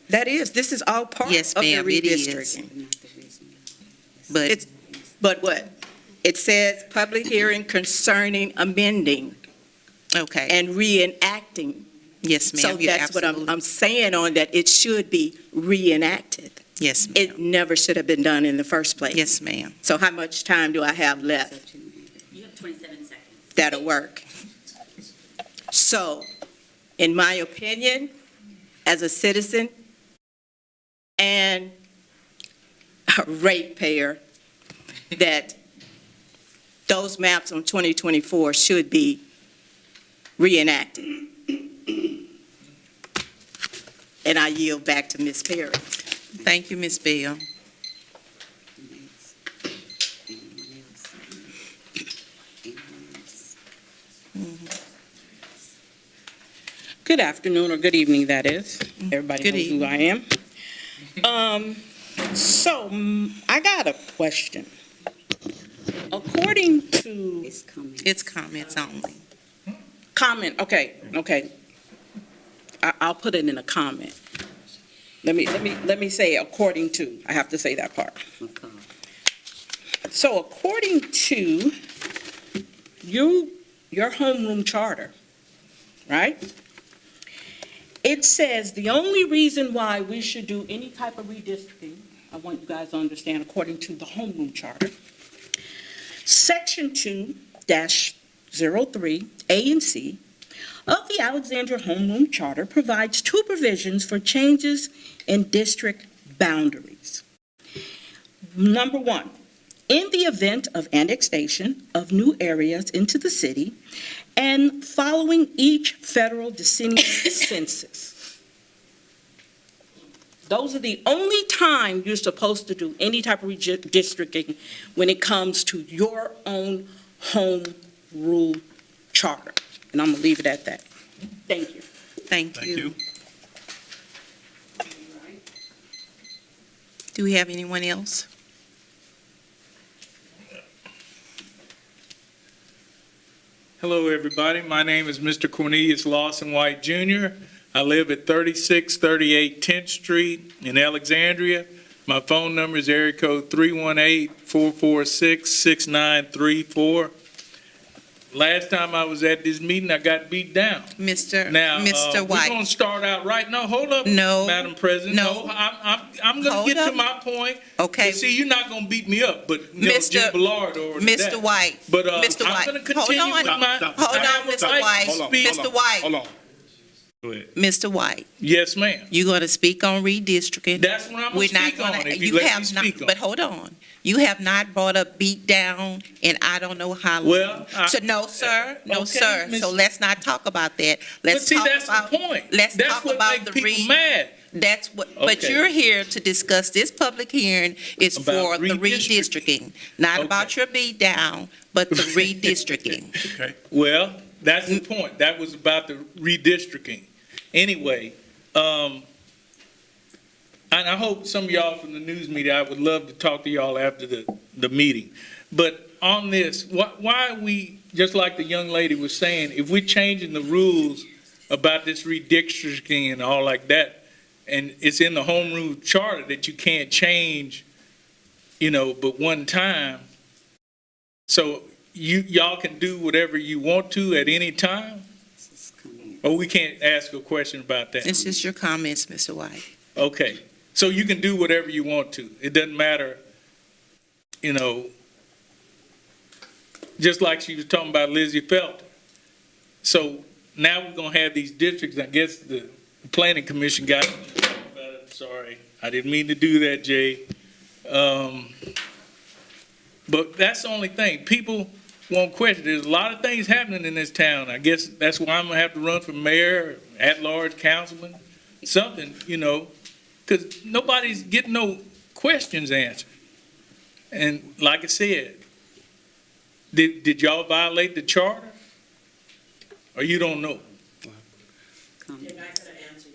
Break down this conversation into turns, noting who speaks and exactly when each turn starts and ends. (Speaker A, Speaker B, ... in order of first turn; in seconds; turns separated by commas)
Speaker A: 0.1-2.7, Speaker B: 1.2-2.6, Speaker C: 2.6-3.7, Speaker C: 4.2-5.0, Speaker B: 4.3-4.6, Speaker A: 5.2-5.7, Speaker A: 6.2-9.3, Speaker B: 10.2-10.5, Speaker A: 10.5-11.8, Speaker B: 12.2-13.5, Speaker A: 12.6-16.6, Speaker B: 16.8-17.4, Speaker A: 17.1-19.3, Speaker B: 19.1-19.8, Speaker A: 19.8-21.6, Speaker C: 21.0-22.8, Speaker A: 23.6-24.2, Speaker A: 25.7-26.3, Speaker A: 27.0-28.1, Speaker A: 28.9-29.7, Speaker A: 31.2-31.7, Speaker A: 33.1-34.2, Speaker A: 35.1-35.6, Speaker A: 36.9-39.2, Speaker A: 40.4-41.2, Speaker A: 44.2-46.0, Speaker B: 46.4-47.4, Speaker C: 48.8-49.5, Speaker C: 50.3-51.5, Speaker C: 52.6-53.6, Speaker B: 54.4-54.7, Speaker D: 57.0-60.3, Speaker B: 59.4-59.9, Speaker D: 61.2-64.7, Speaker D: 66.1-67.3, Speaker C: 67.4-68.2, Speaker B: 68.0-69.2, Speaker D: 70.1-71.5, Speaker D: 72.8-74.2, Speaker D: 75.2-78.2, Speaker C: 78.4-78.9, Speaker D: 80.1-81.7, Speaker D: 83.0-85.1, Speaker D: 86.1-86.4, Speaker D: 88.0-94.9, Speaker D: 96.2-100.2, Speaker D: 100.9-107.2, Speaker D: 108.6-109.3, Speaker D: 109.9-113.8, Speaker D: 114.4-118.2, Speaker D: 120.5-128.6, Speaker D: 129.1-130.8, Speaker D: 131.5-131.8, Speaker B: 132.3-132.9, Speaker E: 132.6-132.9, Speaker B: 137.1-138.3, Speaker E: 143.8-157.1, Speaker E: 158.3-175.7, Speaker B: 161.0-162.6, Speaker B: 164.1-165.5, Speaker B: 166.4-167.0, Speaker B: 167.8-168.2, Speaker B: 169.8-170.4, Speaker B: 170.9-176.1, Speaker F: 173.5-176.3, Speaker E: 177.2-177.5, Speaker B: 177.6-178.3, Speaker E: 178.4-179.1, Speaker B: 179.1-193.9, Speaker E: 180.8-183.1, Speaker E: 187.2-189.8, Speaker E: 191.3-194.3, Speaker B: 194.5-203.2, Speaker E: 195.2-195.7, Speaker E: 198.2-199.4, Speaker E: 200.1-200.5, Speaker E: 201.9-202.6, Speaker E: 203.2-209.1, Speaker E: 210.7-227.7, Speaker E: 228.6-230.1, Speaker E: 231.3-235.1, Speaker C: 235.4-236.3, Speaker E: 236.2-238.1, Speaker B: 238.0-239.6, Speaker C: 238.1-238.5, Speaker E: 240.0-243.2, Speaker E: 244.4-244.9, Speaker E: 247.0-248.8, Speaker E: 249.8-257.2, Speaker E: 257.9-258.5, Speaker E: 260.1-269.7, Speaker E: 270.3-273.1, Speaker E: 274.1-275.4, Speaker E: 276.7-278.6, Speaker E: 279.9-280.6, Speaker C: 282.0-282.9